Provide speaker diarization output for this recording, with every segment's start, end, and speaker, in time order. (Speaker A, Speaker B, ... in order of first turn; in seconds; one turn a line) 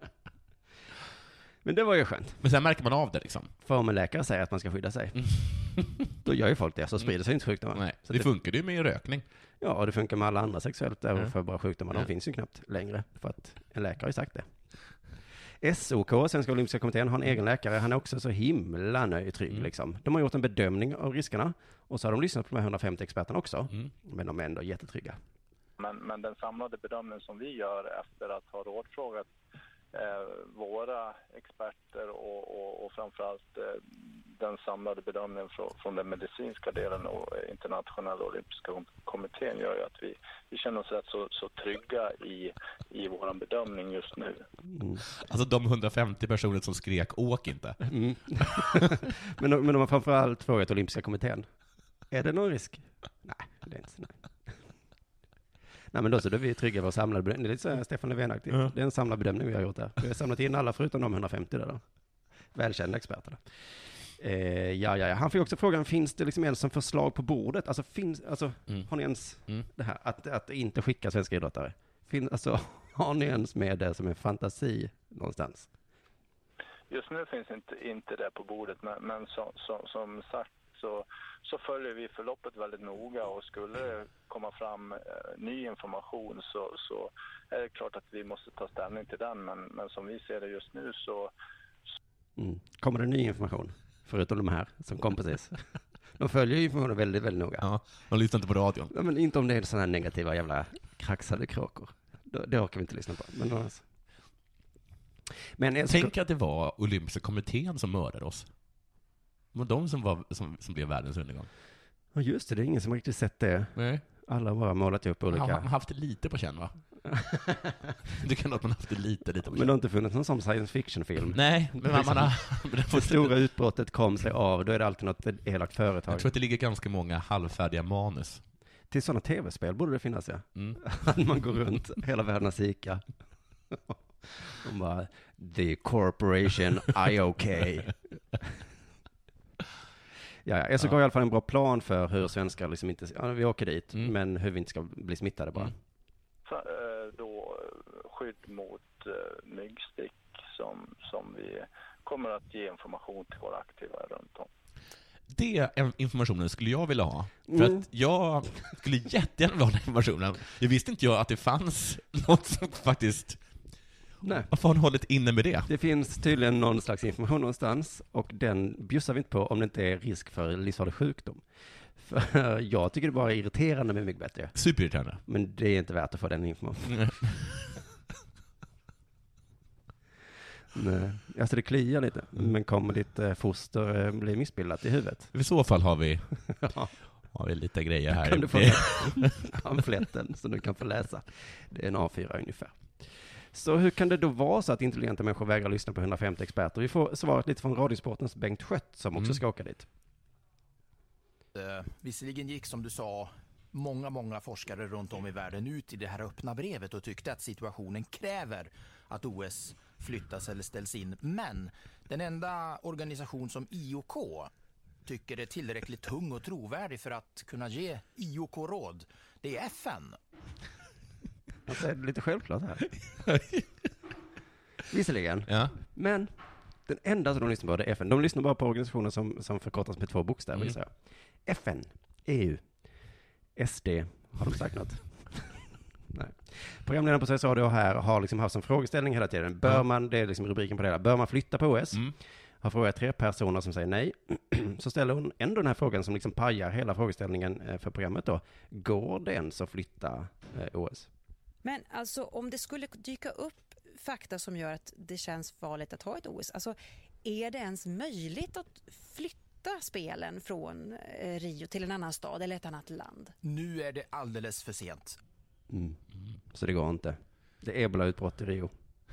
Speaker A: 1.6-2.4
Speaker B: 2.4-3.5
Speaker A: 3.6-5.2
Speaker B: 5.2-6.1
Speaker A: 6.2-8.3
Speaker B: 7.7-9.2
Speaker A: 9.6-14.5
Speaker A: 15.6-25.2
Speaker C: 25.8-29.3
Speaker C: 29.9-44.4
Speaker A: 44.7-45.0
Speaker B: 45.2-47.8
Speaker A: 47.8-51.5
Speaker B: 48.4-49.0
Speaker A: 52.1-54.2
Speaker A: 55.9-61.8
Speaker A: 62.5-63.4
Speaker A: 64.2-75.7
Speaker C: 76.9-91.3
Speaker A: 92.4-95.6
Speaker A: 96.2-97.7
Speaker B: 97.6-98.9
Speaker A: 98.9-103.8
Speaker A: 105.6-106.1
Speaker B: 105.9-108.5
Speaker B: 109.5-111.5
Speaker A: 112.2-115.7
Speaker B: 113.8-114.0
Speaker B: 115.3-116.8
Speaker A: 117.1-117.8
Speaker B: 118.1-119.7
Speaker A: 119.5-122.3
Speaker B: 121.3-123.4
Speaker A: 122.9-126.3
Speaker B: 126.1-128.4
Speaker A: 128.9-133.0
Speaker A: 133.7-137.9
Speaker A: 140.5-145.7
Speaker C: 146.5-154.5
Speaker B: 155.3-163.4
Speaker A: 157.5-157.8
Speaker A: 164.2-164.5
Speaker B: 164.5-165.7
Speaker A: 165.7-171.4
Speaker A: 172.0-174.6
Speaker B: 174.6-175.2
Speaker A: 175.3-177.0
Speaker B: 176.9-177.7
Speaker A: 180.8-185.3
Speaker B: 185.3-186.2
Speaker A: 186.6-186.9
Speaker B: 187.3-189.4
Speaker A: 188.1-193.0
Speaker A: 193.5-199.9
Speaker D: 201.6-214.5
Speaker D: 215.1-220.2
Speaker A: 221.7-222.9
Speaker B: 223.2-223.7
Speaker A: 224.9-226.3
Speaker B: 225.5-225.7
Speaker A: 226.9-230.9
Speaker A: 231.5-232.6
Speaker A: 233.6-235.5
Speaker A: 236.1-242.0
Speaker A: 242.6-251.1
Speaker E: 251.6-263.4
Speaker D: 263.4-265.2
Speaker A: 265.7-266.0
Speaker A: 266.5-268.7